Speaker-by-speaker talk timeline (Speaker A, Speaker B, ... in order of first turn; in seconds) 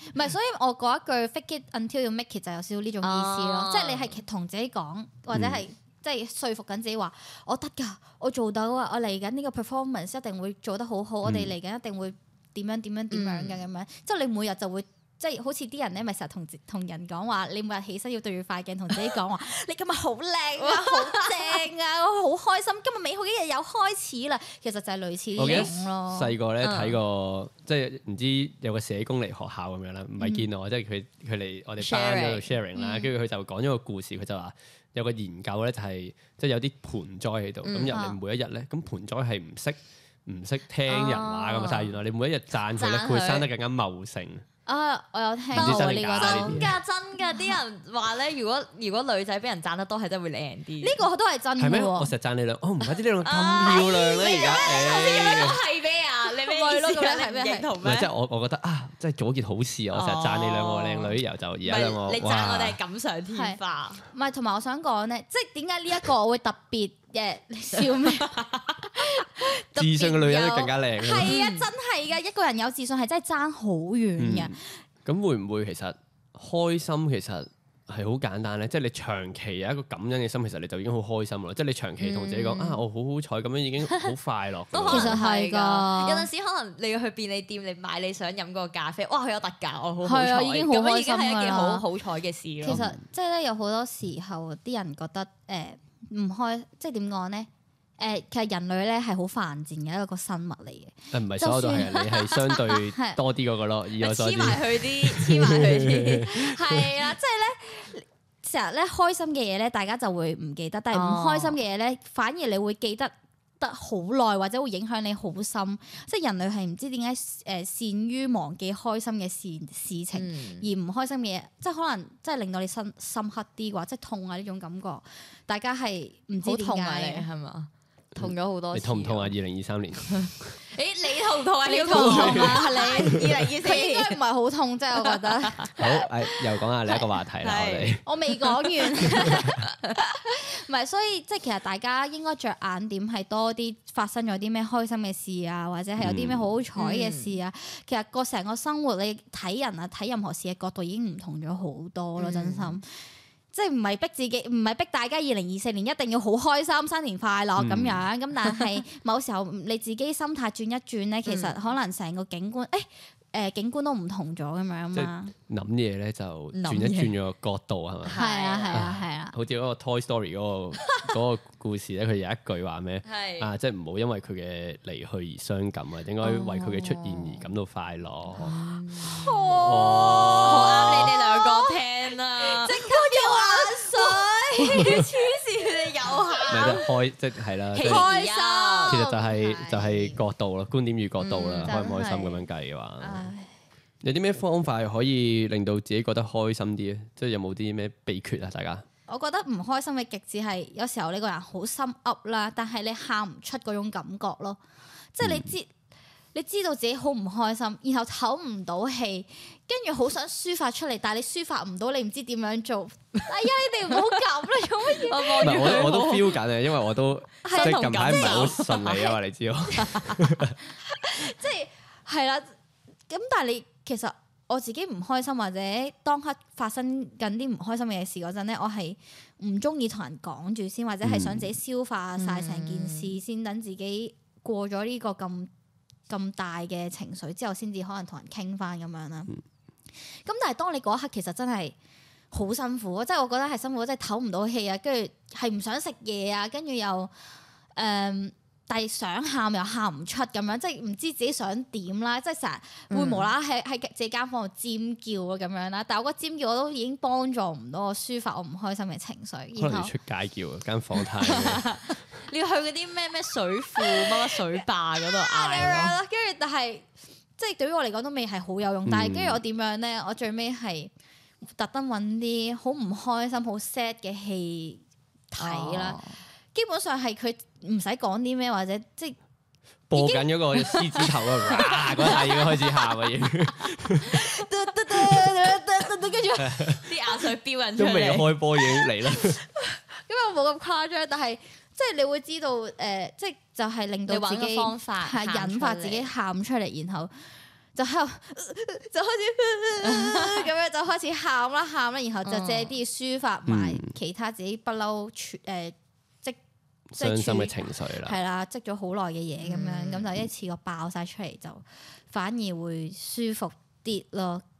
Speaker A: 0.1-26.3, 32.7-33.1, 37.9-38.2, 44.6-46.7, 50.8-52.1, 56.4-57.7, 63.3-74.8, 84.9-86.3, 90.0-91.8, 92.6-102.2, 102.7-103.2, 106.2-127.3, 131.6-135.7, 138.0-152.9, 153.5-165.3, 168.2-169.3, 179.0-181.8, 182.4-185.2, 186.3-186.8, 187.8-190.2, 191.6-192.4, 193.0-193.5, 199.1-204.6, 205.1-205.7, 206.3-215.8, 217.4-218.8, 220.8-222.5, 223.1-235.5, 236.1-239.3, 240.1-241.7, 242.3-247.1, 247.7-259.9, 263.8-264.4, 265.0-266.9, 267.4-270.9, 271.4-276.0, 276.5-279.1, 279.9-282.4, 284.0-286.9, 288.7-297.1, 297.7-306.4, 307.0-314.4
Speaker B: 3.0-4.2, 13.1-13.6, 20.6-21.6, 25.4-25.7, 26.6-27.0, 31.8-32.5, 37.6-38.0, 40.9-41.9, 42.7-43.5, 45.5-51.0, 53.2-58.1, 59.9-64.0, 67.8-68.8, 71.2-71.7, 82.0-82.8, 83.9-84.1, 84.7-92.8, 101.9-102.6, 104.0-106.3, 110.9-111.6, 120.1-120.7, 126.4-129.3, 130.1-134.2, 135.1-136.3, 137.4-138.0, 146.8-147.3, 152.2-152.8, 161.2-161.5, 166.5-167.1, 168.0-168.9, 173.0-173.5, 176.2-177.4, 178.3-186.9, 187.7-189.0, 191.2-191.7, 215.0-216.4, 217.5-219.1, 219.7-220.3, 232.2-233.1, 252.9-253.3, 261.0-265.9, 275.4-276.2, 280.7-281.0, 281.9-282.5, 286.8-288.4, 294.1-296.1, 299.8-300.5, 302.2-302.8, 309.4-310.1
Speaker C: 5.3-5.6, 11.2-11.5, 25.4-44.4, 45.5-46.8, 51.6-55.6, 57.8-62.8, 69.8-71.3, 74.2-85.2, 92.7-93.0, 101.1-106.8, 128.2-130.5, 131.9-133.4, 135.8-138.0, 139.3-139.6, 146.0-146.5, 157.6-158.0, 164.9-168.2, 168.7-178.6, 179.5-181.1, 184.8-185.1, 186.5-188.1, 188.9-193.3, 194.0-198.8, 205.2-205.5, 215.4-220.6, 231.0-231.5, 259.6-261.7, 268.9-269.4, 279.9-284.2, 284.9-285.3, 286.4-286.8, 287.8-289.4, 303.5-303.9, 306.9-308.1